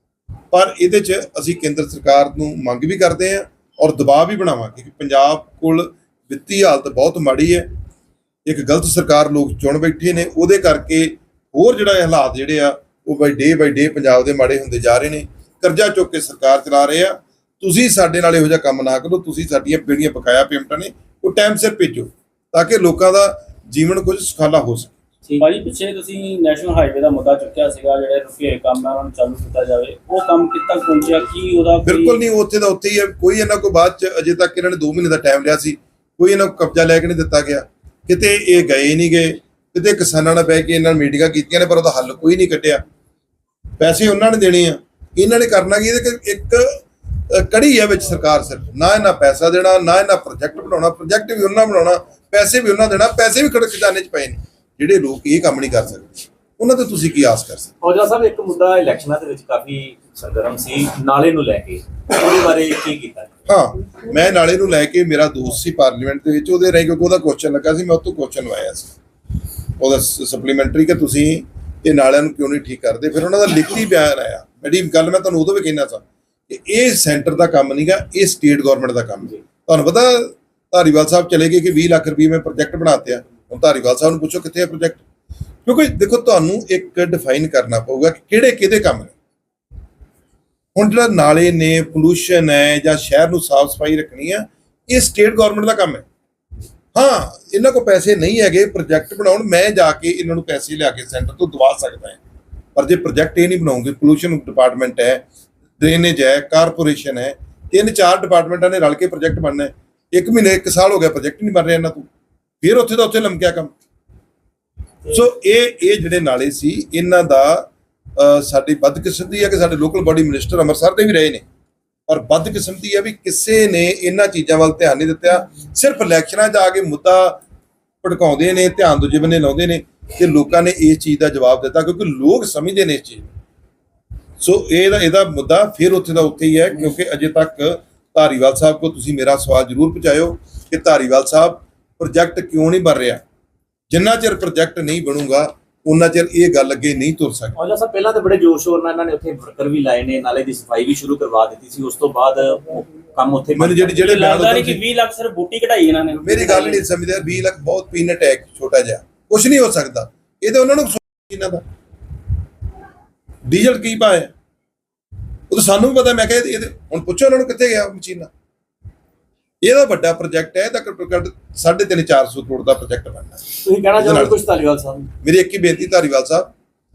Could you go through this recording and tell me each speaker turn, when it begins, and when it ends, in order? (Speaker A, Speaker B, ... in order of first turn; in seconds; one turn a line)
Speaker A: 0.5-7.7
Speaker A: 8.4-24.9
Speaker B: 25.4-32.2
Speaker A: 31.8-42.8
Speaker A: 43.8-57.7
Speaker C: 57.8-63.3
Speaker A: 63.5-69.0
Speaker A: 69.8-85.0
Speaker A: 85.7-89.1
Speaker A: 90.7-96.0
Speaker A: 96.9-102.2
Speaker A: 102.8-105.2
Speaker A: 105.8-112.1
Speaker A: 112.6-113.7
Speaker A: 115.1-121.4
Speaker A: 122.1-127.4
Speaker A: 128.0-133.3
Speaker A: 134.4-143.2
Speaker A: 143.9-147.5
Speaker C: 147.6-154.1
Speaker A: 153.5-154.8
Speaker B: 154.0-156.3
Speaker C: 156.2-156.8
Speaker A: 156.2-161.6
Speaker A: 163.4-164.3
Speaker A: 165.5-168.3
Speaker A: 169.6-174.4
Speaker C: 173.6-175.1
Speaker A: 175.2-176.5